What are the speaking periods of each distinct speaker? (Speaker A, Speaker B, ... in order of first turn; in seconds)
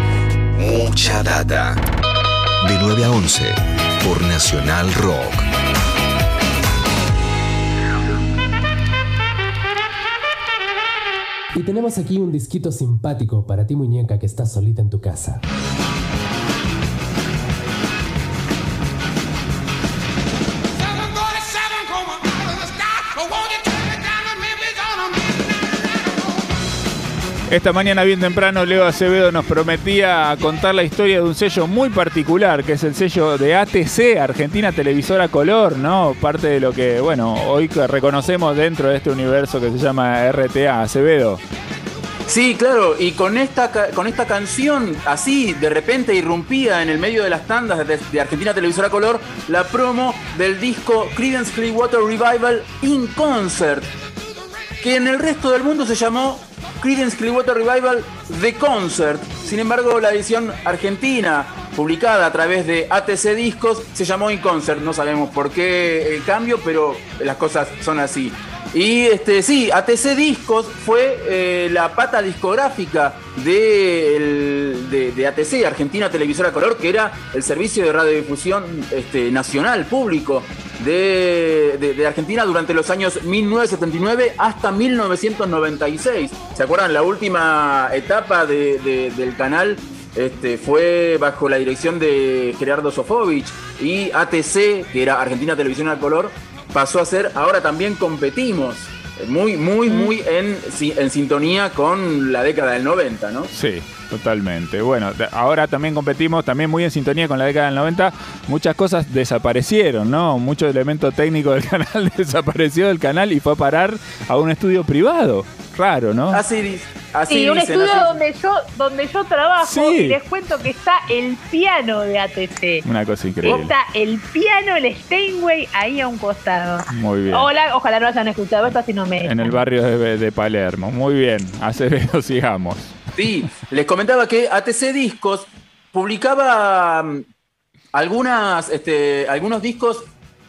Speaker A: 0.6-1.8, 2.6-5.5
Speaker B: 11.5-15.4
Speaker C: 27.5-41.4, 103.5-116.4, 119.6-120.2, 122.8-123.7, 126.9-127.5, 129.2-132.9
Speaker D: 42.3-53.9, 54.8-103.5, 116.3-118.2, 133.2-137.2, 137.9-140.1
Speaker E: 117.3-122.8, 123.5-129.4